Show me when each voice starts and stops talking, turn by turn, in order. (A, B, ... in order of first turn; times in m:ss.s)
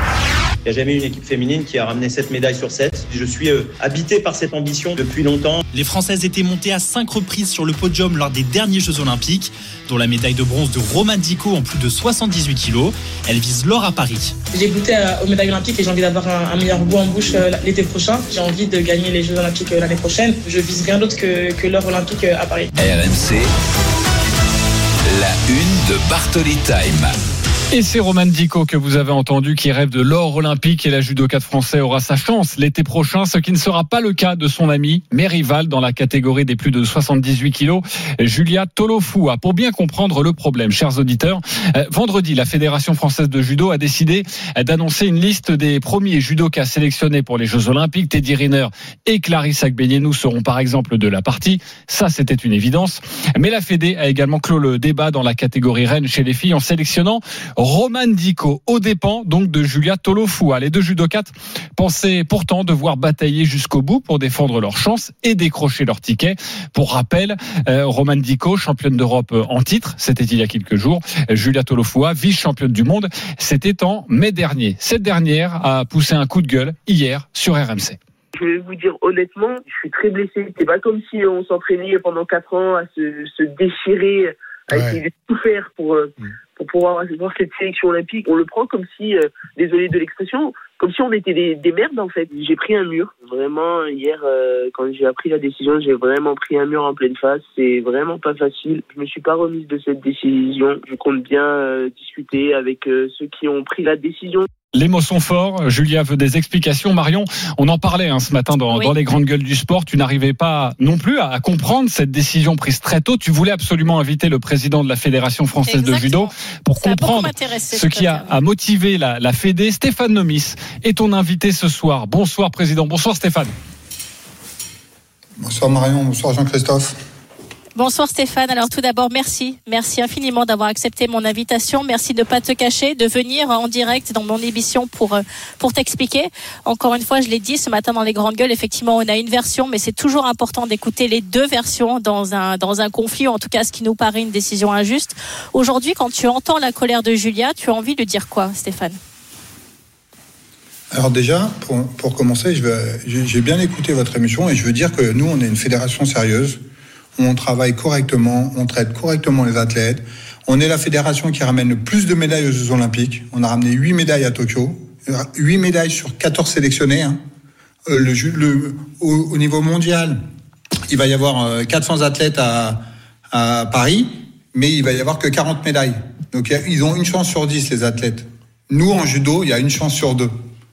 0:00.6-0:05.6 A
0:05.8-0:09.4 B
0:09.9-0:14.2 B
0:14.5-0:22.7 C
0:22.8-0:23.5 D
0:25.1-0:27.1 D
0:27.7-1:18.0 E
1:18.4-1:44.5 F
1:24.7-1:25.0 G
1:44.7-2:03.5 E
1:55.7-1:58.4 H
2:05.4-2:07.0 G
2:07.8-2:29.0 H
2:30.9-2:36.6 G
2:37.2-2:47.2 G
2:47.9-2:50.2 G
2:50.9-3:00.3 G